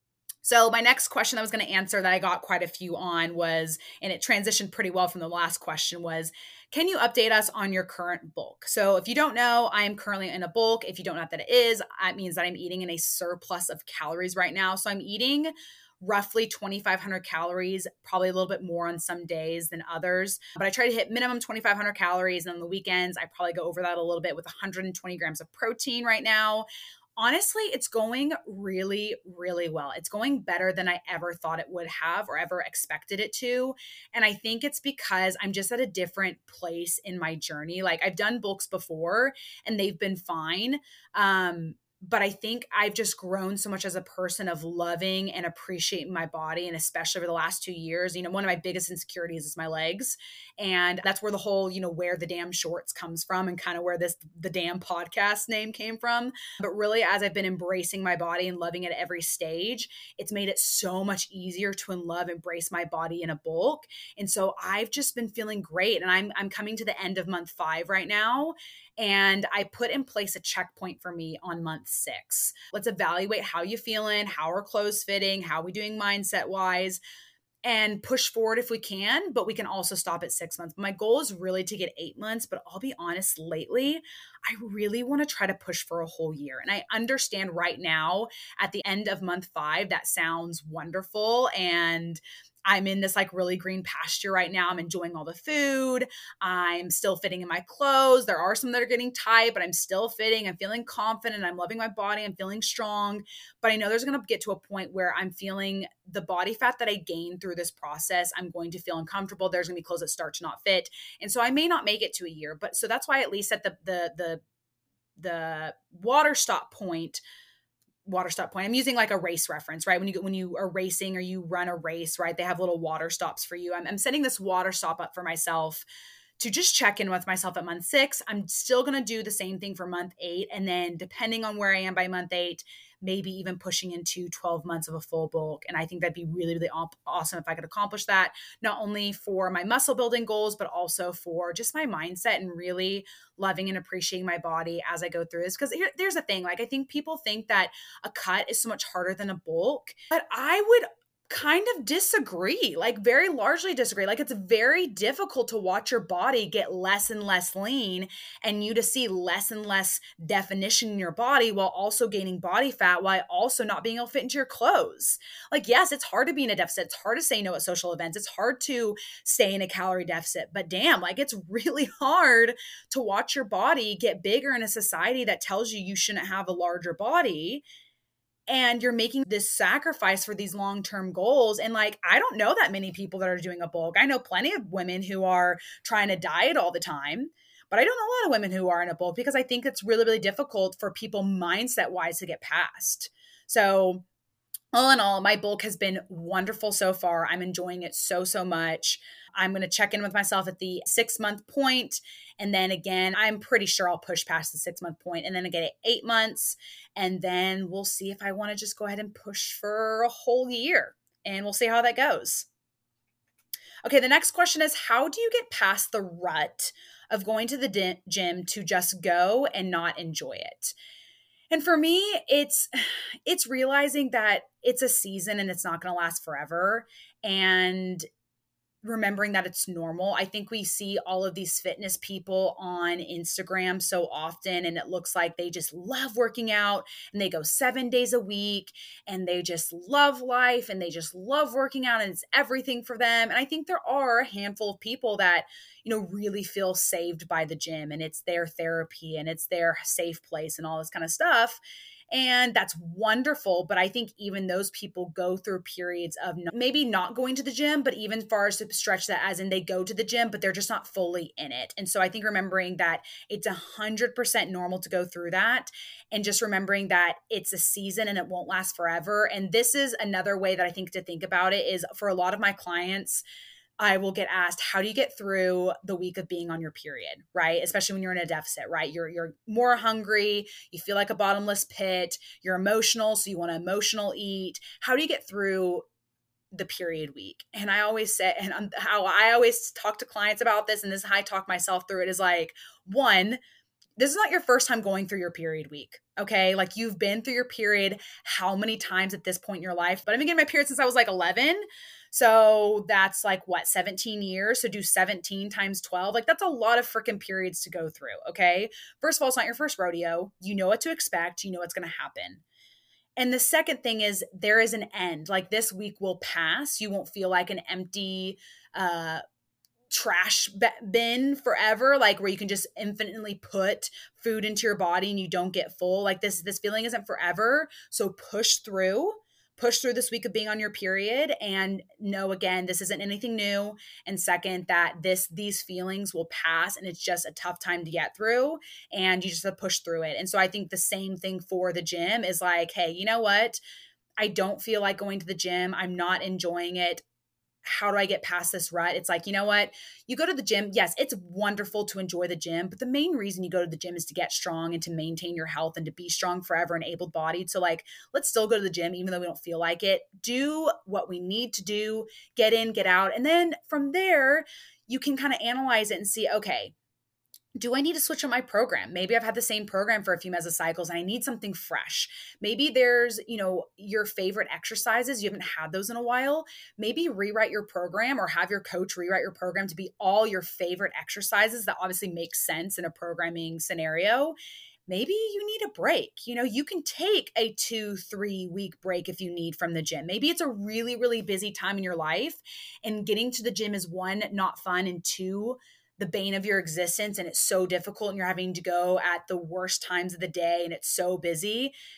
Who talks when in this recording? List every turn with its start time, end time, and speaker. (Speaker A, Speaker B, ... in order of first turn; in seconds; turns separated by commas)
Speaker A: 0.4-77.0, Speaker A: 77.6-114.4, Speaker A: 115.2-117.2, Speaker A: 118.0-125.9, Speaker A: 126.4-177.6, Speaker A: 178.5-194.0, Speaker A: 194.7-212.5, Speaker A: 213.8-220.7, Speaker A: 221.5-228.1, Speaker A: 228.8-251.6, Speaker A: 252.1-273.2, Speaker A: 273.8-285.8, Speaker A: 286.5-293.4, Speaker A: 294.0-312.4, Speaker A: 313.2-319.2, Speaker A: 319.9-343.6, Speaker A: 344.2-347.0, Speaker A: 347.6-366.7, Speaker A: 367.6-384.4, Speaker A: 384.9-401.7